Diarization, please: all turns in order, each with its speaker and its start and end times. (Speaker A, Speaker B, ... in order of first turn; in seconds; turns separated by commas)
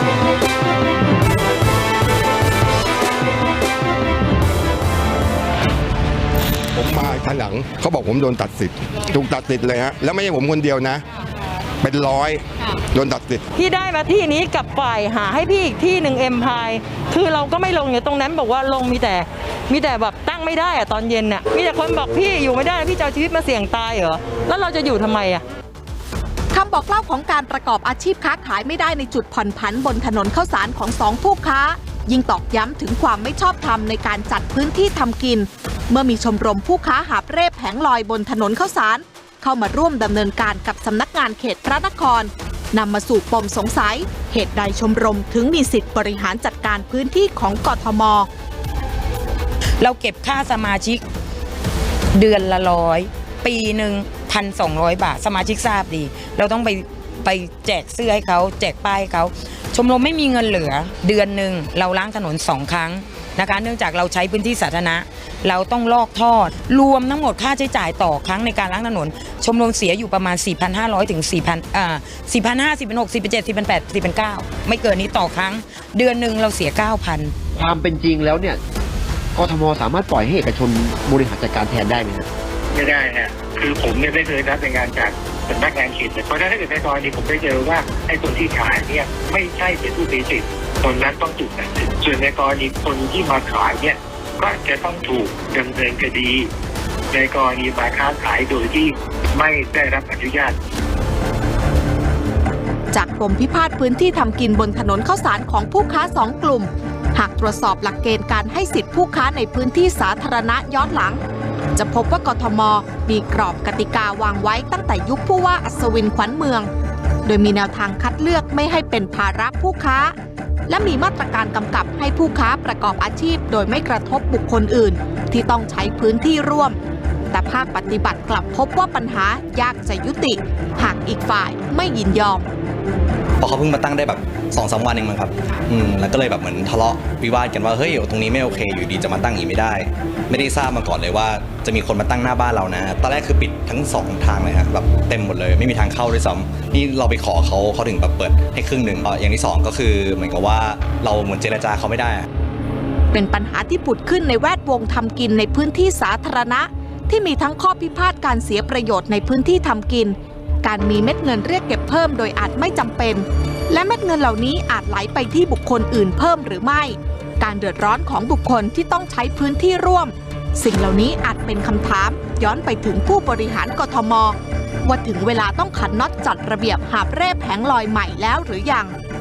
Speaker A: 6.8-11.0, Speaker A: 11.8-13.4, Speaker B: 13.6-25.4, Speaker C: 26.5-48.3, Speaker D: 49.8-51.0, Speaker D: 52.1-77.3, Speaker E: 77.5-78.6, Speaker E: 79.3-82.3, Speaker F: 82.7-96.5, Speaker F: 97.1-100.6, Speaker C: 102.9-111.2, Speaker C: 111.8-116.7, Speaker C: 117.2-120.1, Speaker C: 120.7-126.8, Speaker C: 127.3-132.5, Speaker G: 133.4-152.3, Speaker C: 153.1-178.9